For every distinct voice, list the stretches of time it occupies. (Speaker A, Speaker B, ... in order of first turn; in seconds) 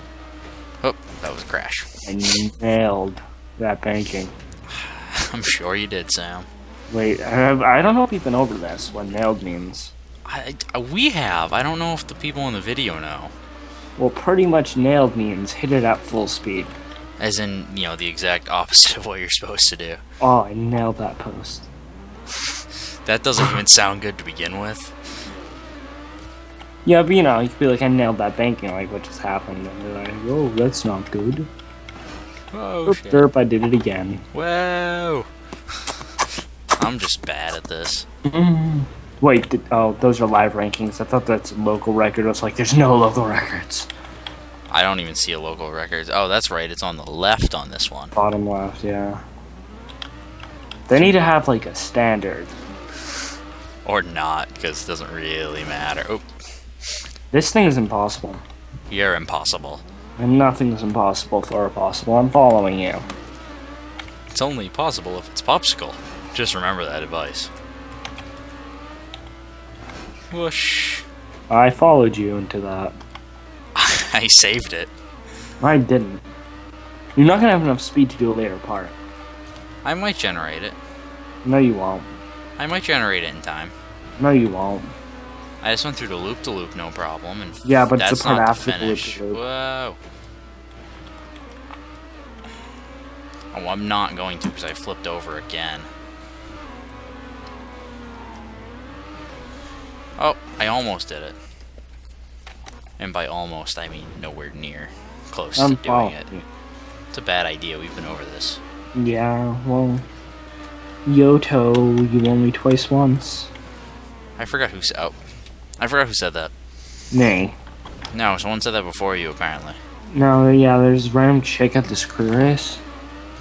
Speaker A: 0.8-1.9, 4.7-6.5, 10.2-13.3, 17.2-20.0, 23.1-24.9, 32.5-33.3, 34.3-35.3, 36.8-38.1, 44.7-48.1, 53.9-56.3, 58.9-59.9, 64.3-67.5, 70.3-71.1, 73.8-74.9, 79.8-80.8, 82.6-83.8, 85.6-90.0, 93.5-95.9, 100.2-101.4, 103.0-106.3, 107.1-108.6, 114.4-115.2, 115.8-116.5, 118.1-119.8
Speaker B: 2.0-4.3, 6.9-9.9, 14.0-16.7, 20.2-21.7, 26.9-31.5, 32.9-34.2, 38.3-43.9, 48.2-49.2, 50.9-52.5, 57.3-58.4, 60.2-63.1, 71.5-73.0, 75.6-76.2, 77.2-79.0, 81.4-82.2, 84.2-84.9, 87.6-89.4, 105.6-106.5, 109.0-110.0, 111.1-113.5, 117.1-117.6, 120.1-122.8